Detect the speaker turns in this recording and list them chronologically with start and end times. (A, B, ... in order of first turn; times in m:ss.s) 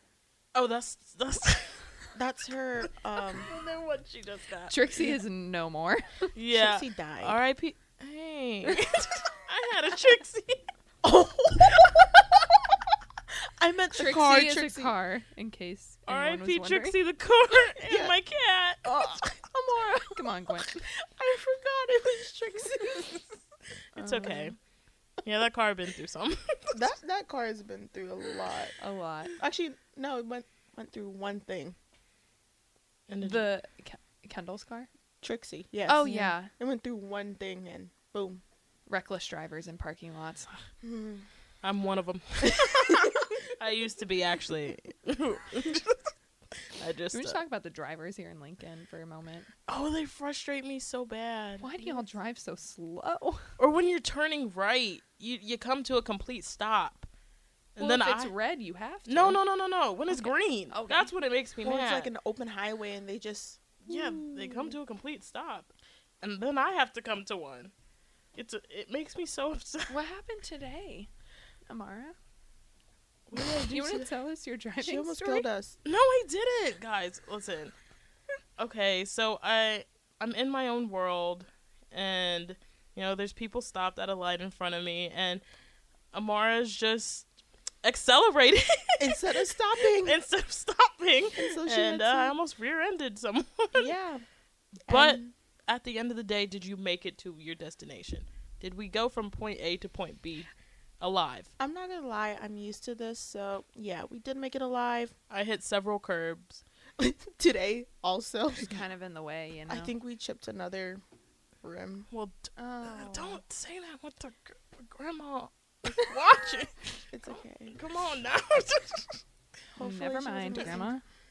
0:00.5-0:02.0 A
0:02.1-0:03.5 B
0:03.3-0:04.8 A
0:04.7-0:06.3 C
0:06.3-0:10.6 A
0:06.5-0:07.4 B
0:11.0-0:12.5 B
0:13.6-0:14.9 B
0:13.9-0:17.0 C
0:16.1-0:18.8 A
0:17.8-0:18.1 B
0:18.8-0:20.2 B
0:19.7-0:20.8 C
0:20.7-0:23.3 B
0:24.0-0:24.5 C
0:24.0-0:24.5 A
0:25.2-0:26.8 A
0:26.7-0:28.7 B
0:28.8-0:29.3 C
0:29.4-0:31.8 B
0:33.1-0:33.5 A
0:33.2-0:34.9 C
0:35.2-0:38.4 B
0:35.9-0:36.5 C
0:38.9-0:40.7 C
0:40.8-0:41.3 B
0:41.6-0:46.1 A
0:42.5-0:43.1 B
0:46.7-0:47.4 A
0:47.1-0:49.5 C
0:49.7-0:52.0 A
0:51.6-0:53.5 C
0:53.6-0:57.1 A
0:57.8-0:58.3 A
0:57.8-0:59.4 C
0:59.1-1:02.1 A
1:00.1-1:01.1 C
1:01.6-1:04.8 B
1:03.8-1:05.7 A
1:06.2-1:07.7 A
1:08.3-1:09.9 A
1:09.9-1:11.1 C
1:11.7-1:12.1 C
1:13.3-1:14.1 A
1:13.3-1:15.5 C
1:14.8-1:15.8 B
1:15.8-1:17.7 A
1:18.6-1:25.4 A
1:26.1-1:27.3 A
1:27.8-1:33.9 A
1:29.0-1:30.2 B
1:31.4-1:32.3 B
1:33.7-1:34.2 B
1:34.9-1:35.3 B
1:34.9-1:41.5 A
1:41.6-1:45.1 B
1:45.3-1:46.6 A
1:47.0-1:48.7 B
1:48.5-1:49.9 C
1:49.7-1:51.0 B
1:51.6-1:52.1 B
1:52.1-1:56.9 A
1:52.6-1:53.4 C
1:57.1-1:57.8 B
1:57.7-1:59.2 A
1:59.8-2:00.9 B
1:59.8-2:01.0 C